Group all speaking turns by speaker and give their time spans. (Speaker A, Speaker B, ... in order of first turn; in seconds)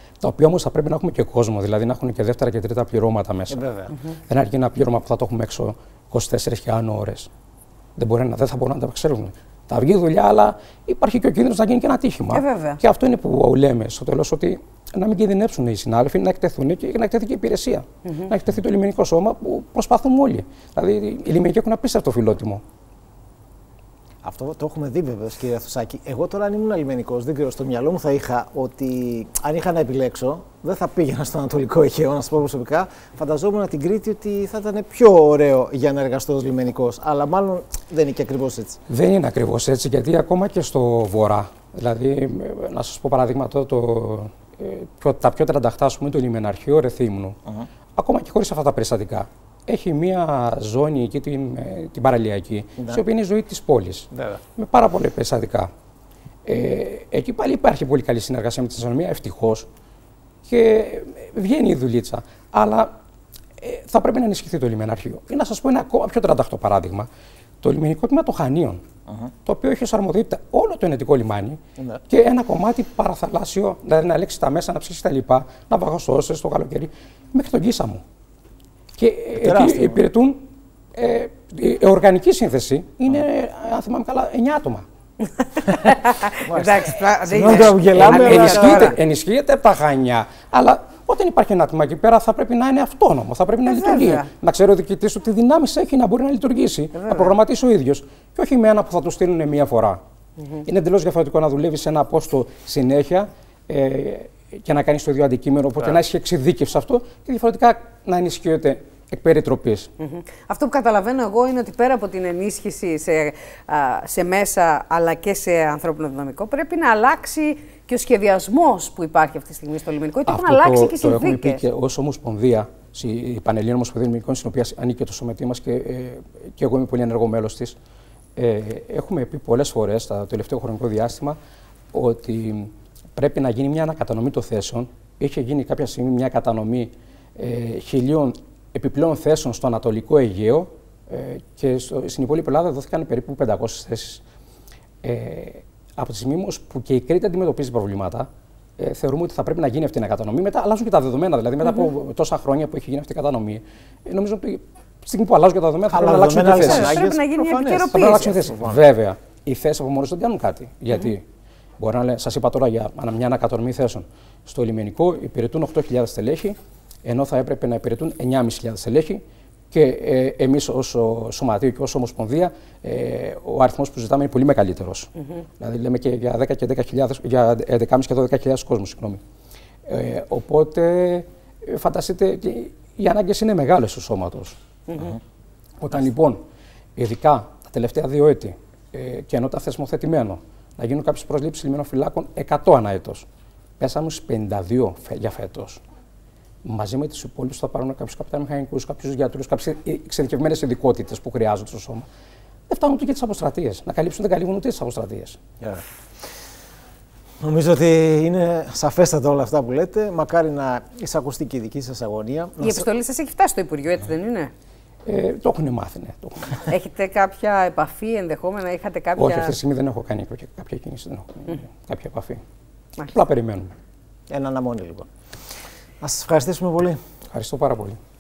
Speaker A: 0.2-3.6, 4.3-7.3, 8.0-22.6, 38.9-47.4, 48.0-55.7, 56.5-59.7, 60.5-62.9, 63.6-67.1, 67.6-68.8, 69.5-78.0, 79.0-80.4, 81.0-84.8, 87.8-100.0, 100.7-109.9, 120.3-127.8, 128.4-131.4, 131.9-144.2, 145.0-157.0, 157.9-161.2, 161.8-179.2, 179.9-184.6, 185.8-186.4, 187.0-193.3, 193.8-195.8, 196.6-202.1, 202.7-205.4, 215.1-216.7, 219.2-222.4, 223.0-223.7, 227.3-228.0
Speaker B: 3.5-3.9, 24.2-38.8, 52.8-53.0, 54.1-54.4, 79.4-80.0, 86.5-89.0, 155.9-157.9, 158.5-158.8, 207.4-212.9, 224.3-225.1, 226.0-227.0
Speaker C: 12.3-12.8, 18.1-18.3, 85.6-89.0, 93.7-94.3, 96.9-97.3, 110.0-121.6, 156.5-158.6, 184.9-185.2, 212.6-214.5, 216.6-219.6